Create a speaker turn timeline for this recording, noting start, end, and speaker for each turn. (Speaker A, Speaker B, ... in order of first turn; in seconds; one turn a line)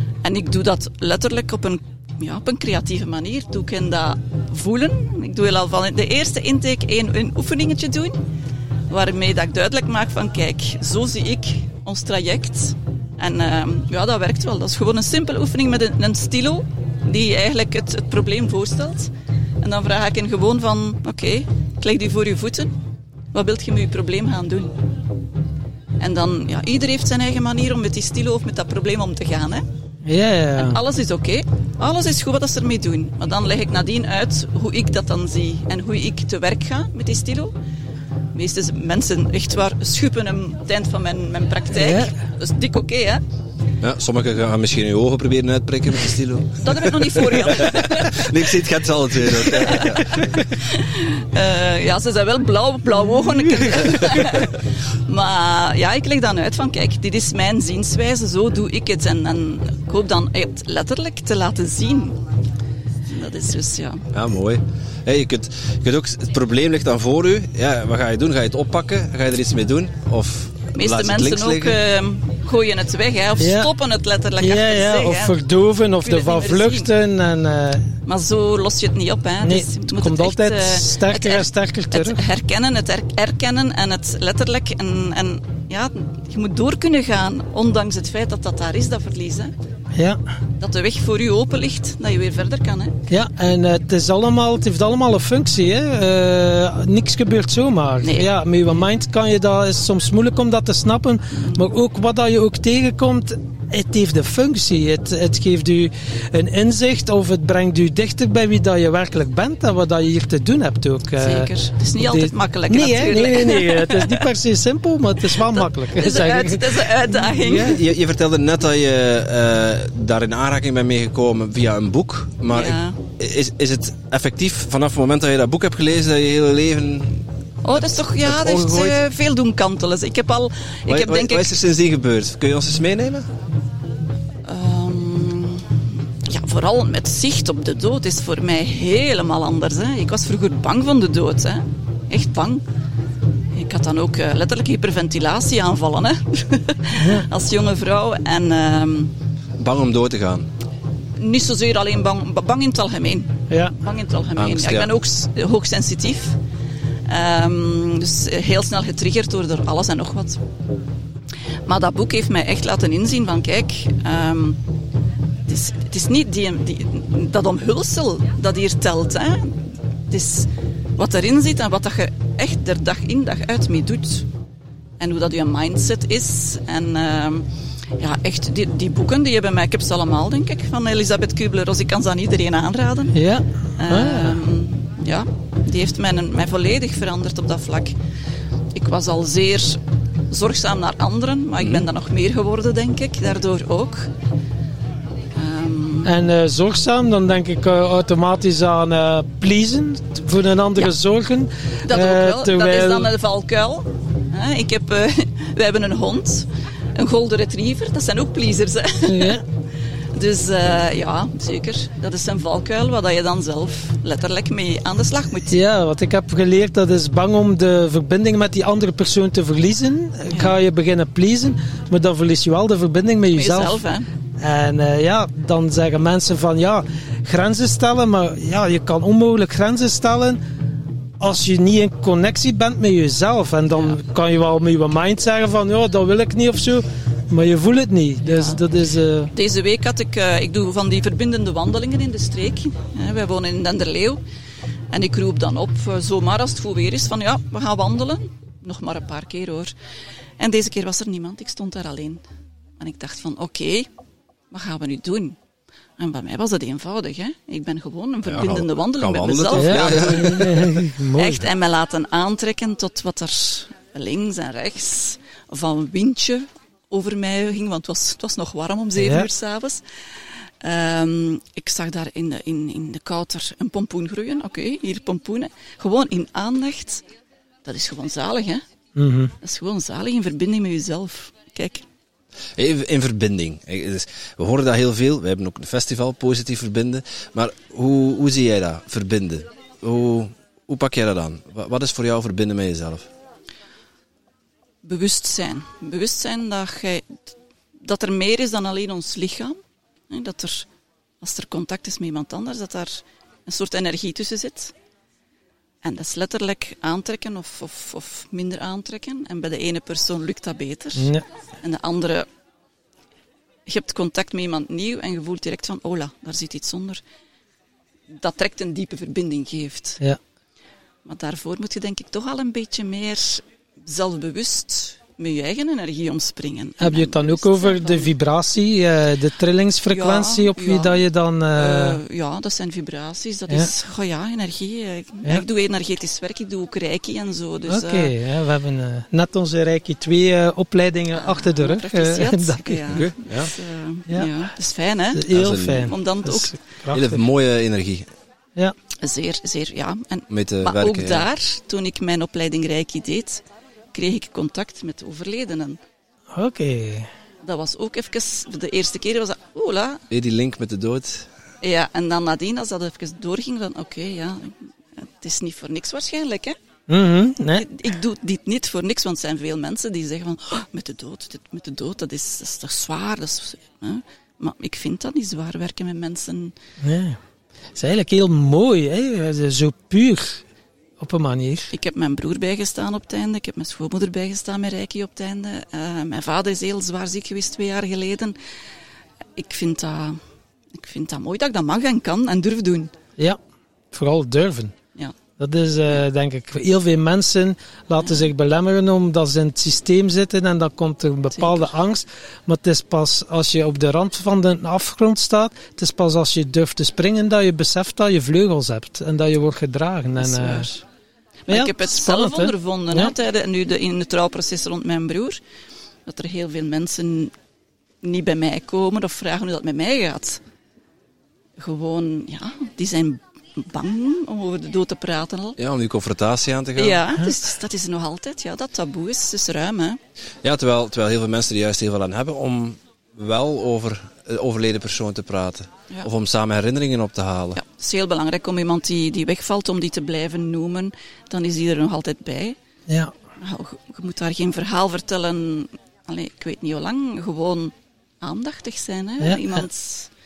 Speaker A: 0.2-8.2
Speaker A: 8.9-22.8
Speaker A: 23.3-24.8
Speaker A: 26.0-29.7
Speaker B: 30.0-30.8
Speaker A: 30.6-37.5
Speaker A: 38.3-43.2
Speaker B: 41.7-42.1
Speaker C: 43.8-50.5
Speaker A: 46.6-48.6
Speaker A: 49.2-62.2
Speaker A: 63.0-64.1
Speaker C: 64.1-71.8
Speaker A: 70.7-75.4
Speaker B: 73.4-73.7
Speaker B: 74.4-77.9
Speaker A: 76.0-76.9
Speaker A: 78.0-89.5
Speaker B: 79.4-82.2
Speaker B: 89.9-90.2
Speaker A: 90.6-93.0
Speaker B: 93.1-117.8
Speaker A: 98.0-98.3
Speaker A: 101.3-101.6
Speaker A: 111.2-114.2
Speaker A: 115.2-117.8
Speaker C: 117.4-129.0
Speaker A: 122.5-123.0
Speaker A: 127.6-131.6
Speaker C: 130.9-133.3
Speaker A: 134.4-142.6
Speaker A: 143.5-149.1
Speaker B: 147.0-147.3
Speaker C: 149.6-150.5
Speaker A: 151.2-156.4
Speaker C: 154.4-154.9
Speaker A: 157.1-160.4
Speaker A: 161.6-164.6
Speaker A: 165.4-174.3
Speaker A: 175.0-183.2
Speaker B: 183.1-184.4
Speaker A: 183.8-188.0
Speaker A: 188.7-194.1
Speaker A: 195.3-196.1
Speaker B: 196.0-203.1
Speaker A: 201.8-209.4
Speaker B: 209.1-209.4
Speaker A: 210.1-215.6
Speaker B: 215.5-223.8
Speaker A: 220.3-220.5
Speaker A: 223.3-224.1
Speaker B: 224.4-230.4
Speaker B: 231.2-239.3
Speaker A: 238.2-238.6
Speaker A: 239.3-244.2
Speaker A: 244.9-249.7
Speaker A: 250.4-252.2
Speaker A: 252.8-253.9
Speaker A: 254.5-255.4
Speaker A: 256.0-260.4
Speaker C: 258.2-260.7
Speaker B: 259.5-261.5
Speaker A: 261.1-269.8
Speaker B: 269.0-269.3
Speaker A: 270.6-277.0
Speaker A: 277.6-278.6
Speaker B: 278.9-279.3
Speaker A: 279.4-281.9
Speaker C: 282.6-293.1
Speaker A: 294.8-300.7
Speaker A: 301.2-304.7
Speaker A: 305.8-312.3
Speaker B: 310.9-311.2
Speaker A: 313.6-317.0
Speaker A: 318.1-320.0
Speaker A: 321.0-328.1
Speaker B: 326.8-332.0
Speaker A: 329.9-338.1
Speaker B: 337.6-342.9
Speaker A: 341.1-345.3
Speaker C: 342.9-343.5
Speaker B: 345.1-347.2
Speaker C: 345.3-345.9
Speaker A: 345.8-346.5
Speaker C: 346.9-348.1
Speaker A: 349.0-355.8
Speaker C: 350.3-351.2
Speaker B: 356.3-357.1
Speaker A: 357.4-360.0
Speaker C: 360.1-361.3
Speaker A: 361.6-366.6
Speaker B: 366.9-367.6
Speaker A: 367.5-376.5
Speaker B: 376.8-377.2
Speaker B: 377.7-380.4
Speaker B: 381.0-381.7
Speaker A: 381.7-388.4
Speaker A: 389.4-390.2
Speaker A: 390.7-392.9
Speaker B: 393.9-394.7
Speaker B: 395.4-410.7
Speaker A: 398.0-398.3
Speaker A: 401.3-401.7
Speaker A: 410.2-410.8
Speaker A: 411.5-415.4
Speaker B: 411.5-413.1
Speaker A: 416.1-417.3
Speaker A: 418.0-420.4
Speaker A: 421.6-425.6
Speaker C: 425.6-427.0
Speaker A: 426.8-430.0
Speaker C: 430.4-437.6
Speaker A: 437.5-442.6
Speaker B: 442.9-443.1
Speaker A: 443.4-450.1
Speaker B: 449.2-449.6